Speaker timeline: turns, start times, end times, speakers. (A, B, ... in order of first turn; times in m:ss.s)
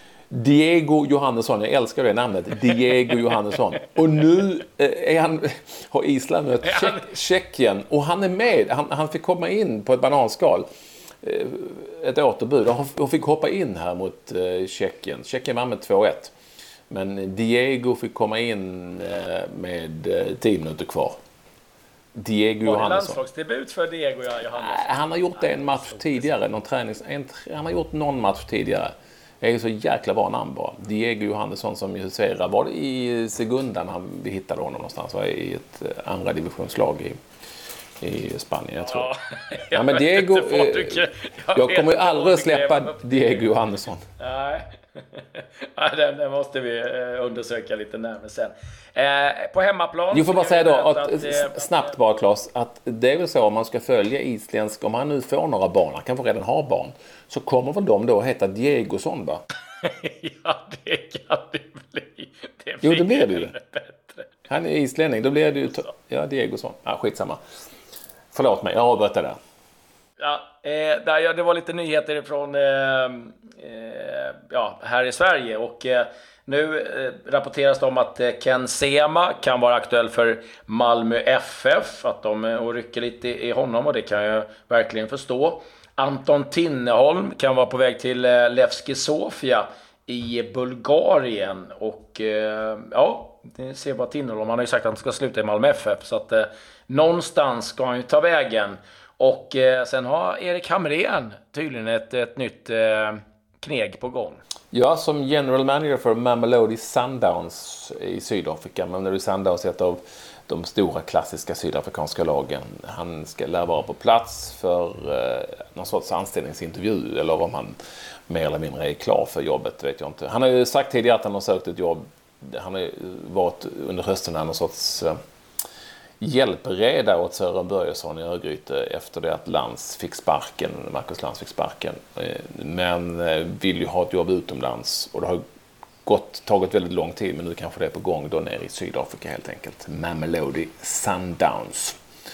0:00.3-0:10.6 A
0:11.2-0:16.3 A
0:16.9-0:21.2 A
0:22.2-0:23.2 A
0:22.6-0:26.3 B
0:24.6-0:37.2 A
0:38.0-0:39.1 A
0:38.9-0:43.4 B
0:39.7-0:44.0 A
0:44.2-0:51.8 B
0:50.1-0:59.4 A
0:59.8-1:04.3 B
1:02.8-1:03.5 A
1:04.5-1:07.4 A
1:08.3-1:09.4 A
1:10.2-1:44.4 B
1:44.7-1:57.8 A
1:58.3-2:05.1 A
2:06.2-2:15.4 A
2:16.0-2:22.0 A